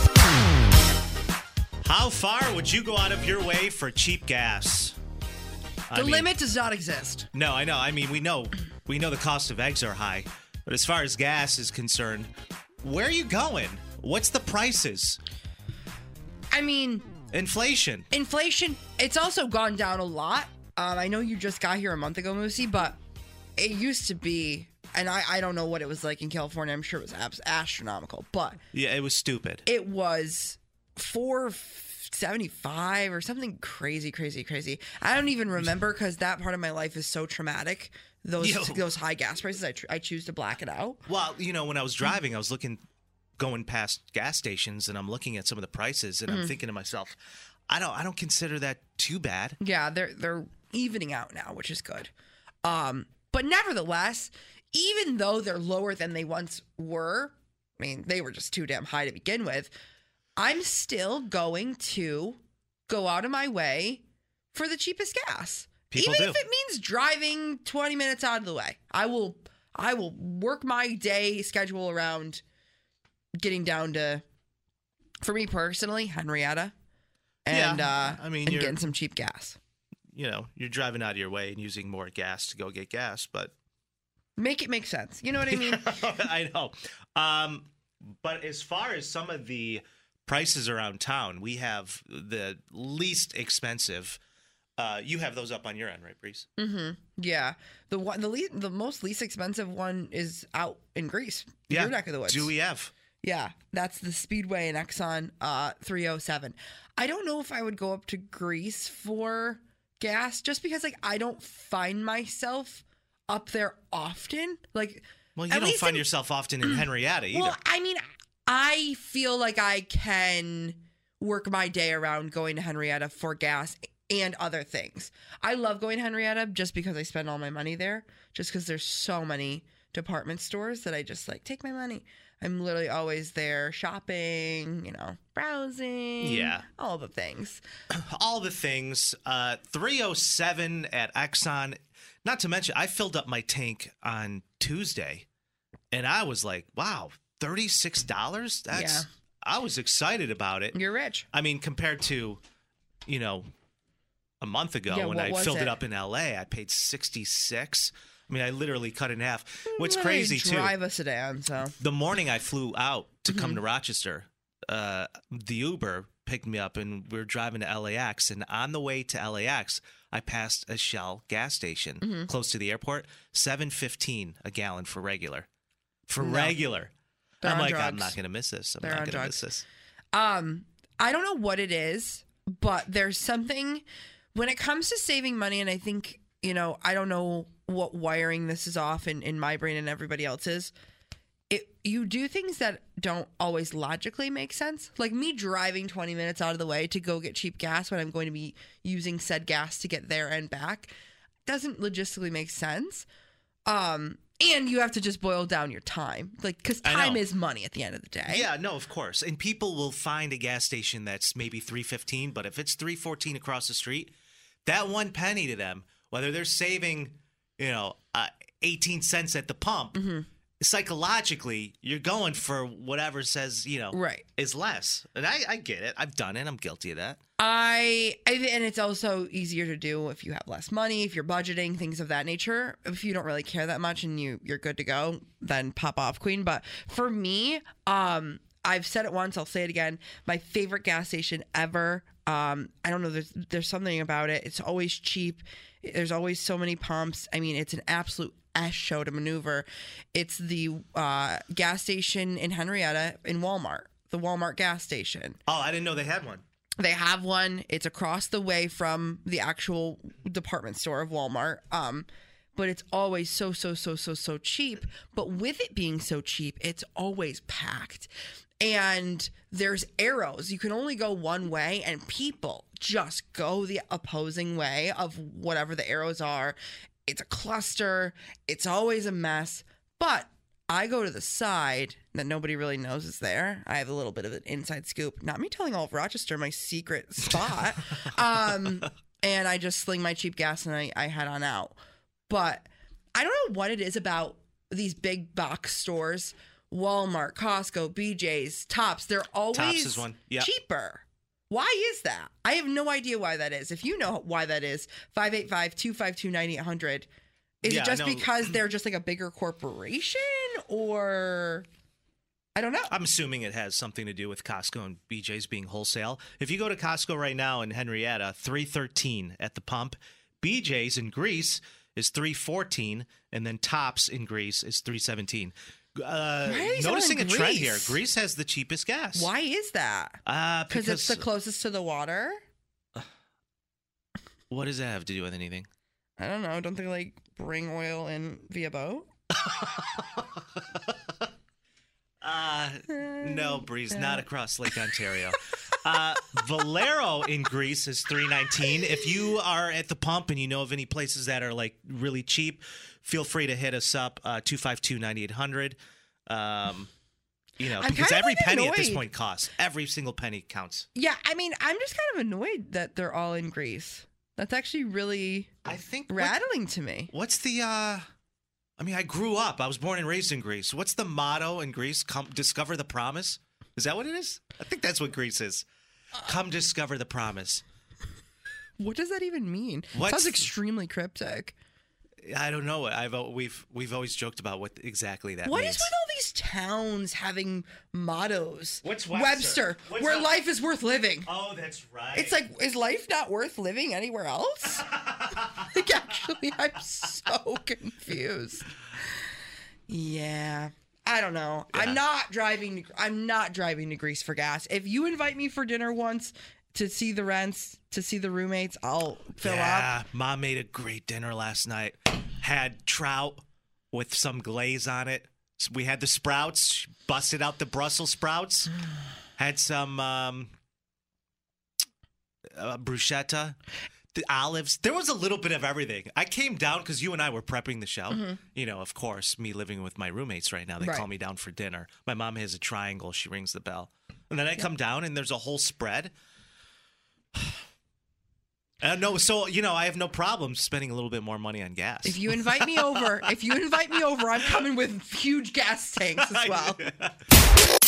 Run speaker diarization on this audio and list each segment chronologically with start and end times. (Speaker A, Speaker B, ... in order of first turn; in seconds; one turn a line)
Speaker A: 1.8-5.0
Speaker A: 5.9-6.3
Speaker B: 5.9-7.3
Speaker A: 7.3-12.3
Speaker A: 12.8-15.2
Speaker B: 16.5-17.1
Speaker A: 17.3-18.1
Speaker B: 18.1-23.0
Speaker B: 23.6-28.6
Speaker A: 28.7-29.6
Speaker B: 29.6-41.0
Speaker A: 38.4-38.9
Speaker A: 41.0-42.8
Speaker A: 43.4-47.1
Speaker B: 46.3-46.5
Speaker A: 47.7-49.6
Speaker B: 49.6-52.1
Speaker B: 52.6-59.7
Speaker B: 60.4-72.4
Speaker A: 65.9-66.4
Speaker B: 73.4-74.2
Speaker B: 75.2-76.7
Speaker B: 77.4-79.6
Speaker A: 77.5-78.8
Speaker A: 80.1-83.5
Speaker B: 84.4-86.0
Speaker A: 85.4-87.7
Speaker A: 88.2-94.2
Speaker A: 94.8-96.5
Speaker B: 96.6-102.5
Speaker A: 101.7-102.9
Speaker B: 103.2-116.1
Speaker A: 115.3-117.6
Speaker B: 116.6-137.6
Speaker A: 136.2-136.7
Speaker A: 137.9-145.2
Speaker A: 145.9-150.8
Speaker B: 148.7-149.0
Speaker B: 150.7-151.3
Speaker A: 151.3-152.4
Speaker A: 153.1-153.5
Speaker A: 154.4-160.7
Speaker B: 154.9-155.8
Speaker B: 159.7-161.7
Speaker A: 161.8-175.5
Speaker B: 163.3-163.6
Speaker B: 172.0-172.3
Speaker A: 176.1-176.9
Speaker B: 176.2-176.6
Speaker B: 177.4-178.2
Speaker A: 177.4-179.6
Speaker B: 178.8-179.5
Speaker B: 180.1-183.8
Speaker B: 184.3-190.7
Speaker B: 191.5-200.9
Speaker B: 201.4-203.1
Speaker B: 203.7-208.5
Speaker A: 206.8-207.2
Speaker A: 208.3-214.1
Speaker A: 214.6-220.0
Speaker B: 219.9-220.3
Speaker A: 220.6-227.2
Speaker B: 223.9-224.2
Speaker B: 227.4-255.4
Speaker A: 255.4-256.4
Speaker B: 256.8-268.1
Speaker B: 268.6-276.6
Speaker B: 277.1-291.7
Speaker B: 292.3-307.1
Speaker A: 299.5-300.5
Speaker B: 307.6-311.6
Speaker A: 307.6-308.6
Speaker B: 312.5-312.9
Speaker A: 312.9-329.3
Speaker B: 326.4-328.0
Speaker B: 329.1-330.2
Speaker A: 330.2-331.2
Speaker B: 330.7-332.4
Speaker A: 334.5-335.7
Speaker B: 336.2-339.1
Speaker A: 339.4-340.6
Speaker A: 342.2-356.9
Speaker B: 343.9-344.2
Speaker A: 357.6-360.9
Speaker B: 357.8-359.0
Speaker B: 360.9-365.5
Speaker A: 365.6-366.4
Speaker B: 366.1-367.1
Speaker A: 367.1-368.0
Speaker A: 368.8-375.6
Speaker A: 376.2-377.6
Speaker B: 378.8-381.5
Speaker A: 379.9-380.5
Speaker A: 382.2-385.9
Speaker B: 385.4-391.3
Speaker A: 388.8-390.3
Speaker A: 391.2-392.4
Speaker B: 392.1-394.9
Speaker A: 394.7-395.5
Speaker B: 395.5-399.1
Speaker B: 399.9-409.9
Speaker A: 401.7-402.0
Speaker A: 409.4-418.7
Speaker A: 419.4-420.5
Speaker A: 422.6-423.6
Speaker A: 424.1-436.1
Speaker B: 428.1-428.4
Speaker B: 430.8-431.1
Speaker A: 438.8-443.0
Speaker B: 442.0-446.8
Speaker A: 446.2-447.1